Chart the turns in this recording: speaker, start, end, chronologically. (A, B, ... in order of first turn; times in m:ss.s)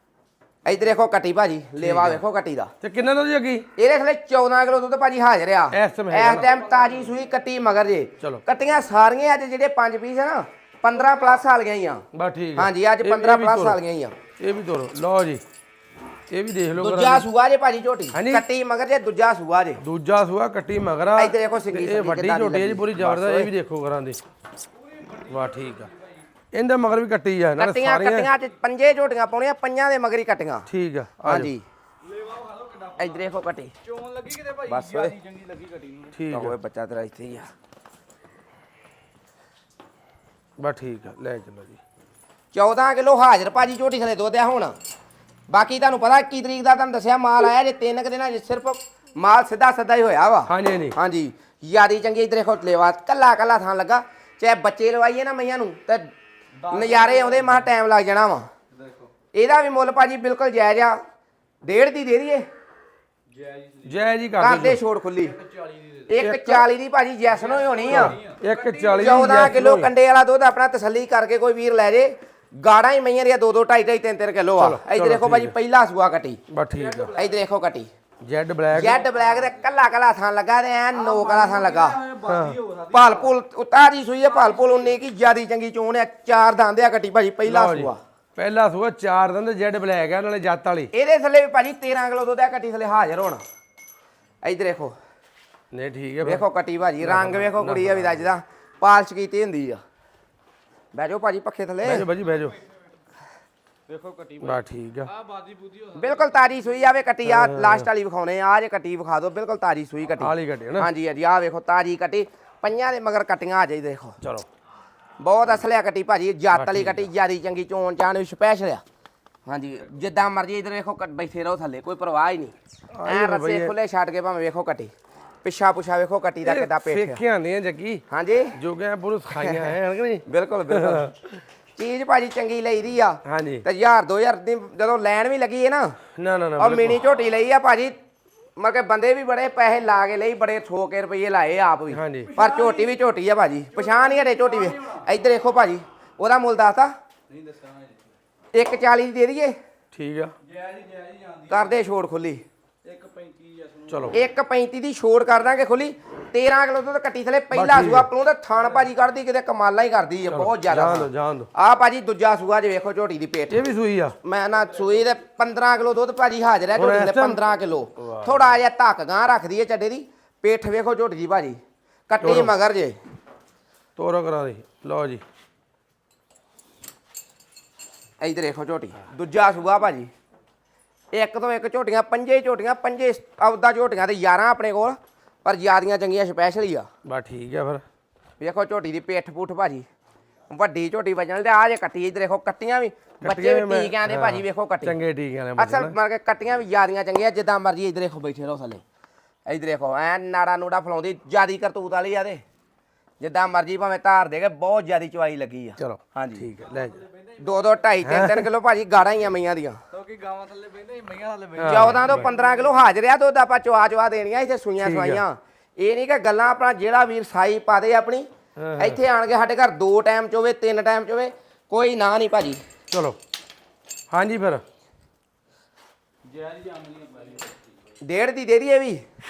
0:00.6-0:02.7 A
0:01.8-0:02.2 B
0:02.8-0:03.6 B
0:03.8-0:12.0 A
0:05.7-0:06.5 B
0:06.5-0:07.1 C
0:12.1-0:13.8 B
0:12.6-0:14.2 A
0:14.4-0:15.4 B
0:16.3-0:17.2 B
0:16.8-0:19.8 A
0:18.1-0:18.4 B
0:19.8-0:24.2 B
0:21.2-0:23.5 A
0:24.8-0:26.2 C
0:25.2-0:25.9 B
0:26.5-0:28.3 B
0:27.6-0:30.7 A
0:30.7-0:31.5 B
0:31.2-0:31.6 A
0:32.1-0:33.2 C
0:33.0-0:33.7 A
0:33.8-0:36.2 C
0:34.7-0:35.2 A
0:36.1-0:36.6 B
0:36.3-0:37.5 A
0:40.6-0:41.8 B
0:42.5-0:44.8 A
0:45.5-0:56.0 A
0:50.5-0:51.0 B
0:56.6-0:57.7 C
0:56.7-0:58.5 A
0:58.7-0:59.1 C
0:59.3-1:01.0 A
1:01.6-1:02.5 A
1:03.3-1:04.2 C
1:03.8-1:04.8 B
1:04.4-1:05.4 A
1:05.2-1:06.1 C
1:06.1-1:08.2 A
1:06.2-1:06.7 B
1:07.4-1:09.5 C
1:07.9-1:09.9 B
1:09.0-1:16.4 A
1:14.6-1:15.6 B
1:16.5-1:17.1 B
1:16.7-1:17.4 C
1:17.1-1:17.9 A
1:18.2-1:19.0 B
1:18.7-1:22.0 A
1:18.8-1:19.6 C
1:20.9-1:23.3 C
1:22.2-1:22.6 B
1:22.9-1:28.0 A
1:24.2-1:25.0 C
1:27.5-1:30.9 B
1:30.9-1:33.4 A
1:34.4-1:35.0 A
1:35.7-1:36.4 B
1:36.2-1:39.8 A
1:37.0-1:38.3 B
1:40.9-1:42.1 A
1:41.8-1:42.6 B
1:43.9-1:46.4 C
1:44.4-1:45.1 B
1:46.0-1:54.2 A
1:47.2-1:47.9 B
1:50.2-1:50.9 B
1:54.2-1:54.5 B
1:55.2-1:58.8 A
1:56.5-1:57.1 B
1:59.5-2:02.6 A
2:02.9-2:03.7 B
2:03.1-2:04.9 A
2:05.4-2:07.2 A
2:06.4-2:08.0 B
2:08.1-2:08.6 A
2:08.6-2:11.4 B
2:09.4-2:11.1 A
2:11.8-2:16.0 A
2:13.2-2:13.6 B
2:16.2-2:17.0 B
2:16.6-2:18.0 A
2:18.6-2:26.9 A
2:21.9-2:22.3 B
2:22.2-2:23.0 C
2:23.7-2:25.1 C
2:27.3-2:28.1 C
2:28.5-2:29.6 A
2:29.9-2:30.3 B
2:30.4-2:31.8 C
2:31.5-2:32.4 A
2:32.8-2:34.2 C
2:33.9-2:34.2 B
2:34.1-2:43.6 A
2:37.5-2:38.1 B
2:40.3-2:41.5 B
2:43.5-2:44.2 B
2:44.2-2:53.0 A
2:46.8-2:48.6 B
2:52.2-2:52.5 B
2:54.0-2:55.2 B
2:58.2-3:00.1 A
3:01.1-3:06.9 A
3:07.0-3:07.8 B
3:08.4-3:09.9 A
3:10.5-3:15.0 A
3:13.2-3:16.0 B
3:15.6-3:18.8 A
3:19.5-3:22.4 A
3:23.2-3:26.5 A
3:25.8-3:27.0 B
3:26.7-3:27.6 C
3:27.4-3:29.8 A
3:28.0-3:28.5 B
3:29.9-3:32.7 C
3:31.6-3:32.3 B
3:31.7-3:42.6 A
3:34.8-3:35.2 B
3:38.6-3:39.0 B
3:42.9-3:43.2 B
3:44.1-3:44.6 B
3:46.2-3:47.7 C
3:48.0-3:49.0 A